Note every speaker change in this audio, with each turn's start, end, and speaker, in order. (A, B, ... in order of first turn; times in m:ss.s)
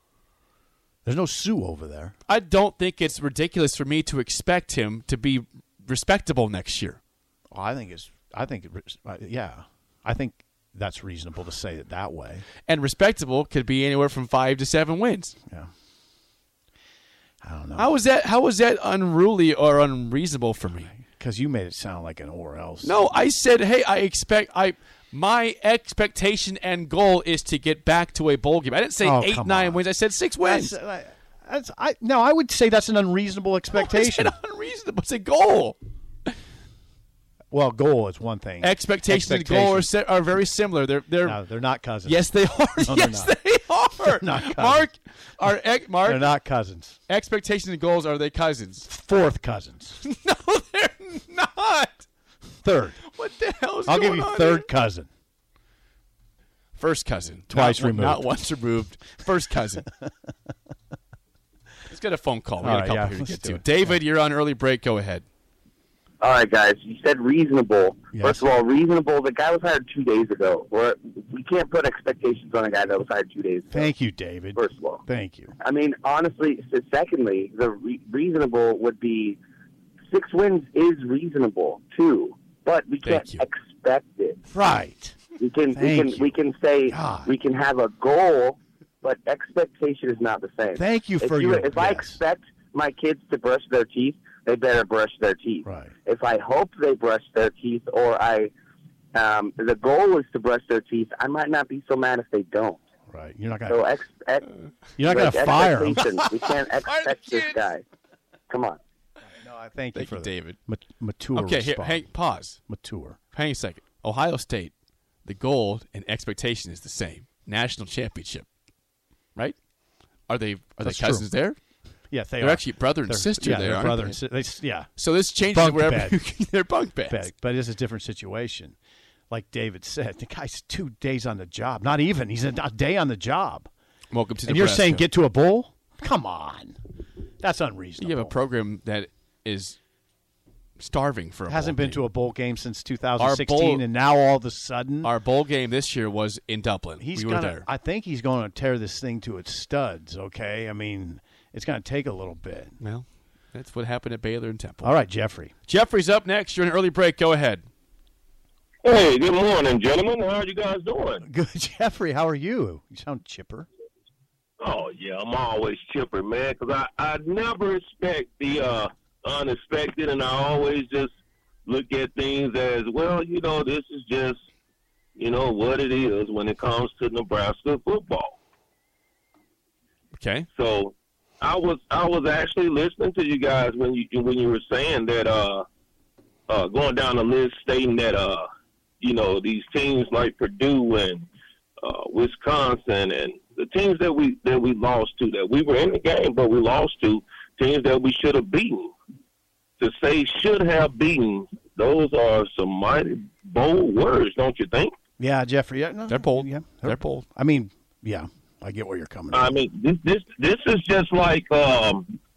0:01.0-0:02.1 A
0:02.3-0:07.0 B
0:07.5-0:12.4 A
0:12.6-0:15.4 B
0:17.4-0:18.0 A
0:17.8-0:20.9 B
0:20.9-0:23.0 A
0:22.8-0:30.8 B
0:29.0-0:29.8 A
0:30.4-0:34.4 A
0:33.7-0:35.8 B
0:37.5-0:39.9 A
0:38.6-0:41.4 B
0:41.2-0:43.4 A
0:42.0-0:46.2 B
0:44.0-0:44.9 A
0:46.0-0:47.0 A
0:47.1-0:48.9 B
0:48.9-0:50.0 A
0:50.0-0:52.1 B
0:52.6-0:53.0 A
0:53.0-0:54.7 B
0:53.9-0:55.1 A
0:56.8-0:59.9 B
0:57.5-0:58.3 A
1:01.9-1:05.2 B
1:02.6-1:04.0 A
1:06.2-1:13.9 C
1:08.1-1:08.5 A
1:13.7-1:15.5 A
1:14.6-1:15.0 C
1:15.6-1:19.4 C
1:20.1-1:24.4 C
1:23.0-1:23.5 B
1:24.5-1:26.4 A
1:25.4-1:38.5 C
1:26.9-1:27.3 A
1:30.8-1:32.2 A
1:35.6-1:35.9 A
1:39.1-1:42.8 C
1:43.1-1:43.8 A
1:43.7-1:44.5 C
1:45.0-1:46.1 A
1:45.1-1:47.8 C
1:46.8-1:47.7 B
1:48.5-1:48.8 C
1:49.4-1:52.1 A
1:49.9-1:50.6 B
1:51.3-1:52.6 B
1:52.7-1:53.2 A
1:53.3-1:54.7 B
1:55.2-1:58.5 B
2:00.3-2:01.6 B
2:00.8-2:01.3 A
2:02.1-2:06.2 A
2:02.4-2:04.2 B
2:05.0-2:07.3 B
2:07.1-2:08.8 A
2:09.3-2:13.7 A
2:14.1-2:15.1 B
2:14.5-2:16.8 A
2:17.4-2:18.4 A
2:18.0-2:19.8 B
2:20.8-2:22.0 B
2:21.5-2:25.1 A
2:23.2-2:23.8 B
2:25.0-2:27.6 B
2:27.0-2:32.7 A
2:32.8-2:34.9 B
2:34.8-2:35.5 A
2:35.7-2:37.6 B
2:38.8-2:41.2 D
2:41.2-2:43.7 A
2:44.6-2:51.1 D
2:51.6-2:54.5 D
2:55.2-2:58.4 D
3:00.1-3:00.5 B
3:00.5-3:05.6 D
3:06.5-3:08.4 D
3:09.0-3:11.3 D
3:11.8-3:18.9 D
3:19.8-3:24.9 D
3:25.2-3:29.5 A
3:26.1-3:27.2 B
3:29.3-3:32.1 D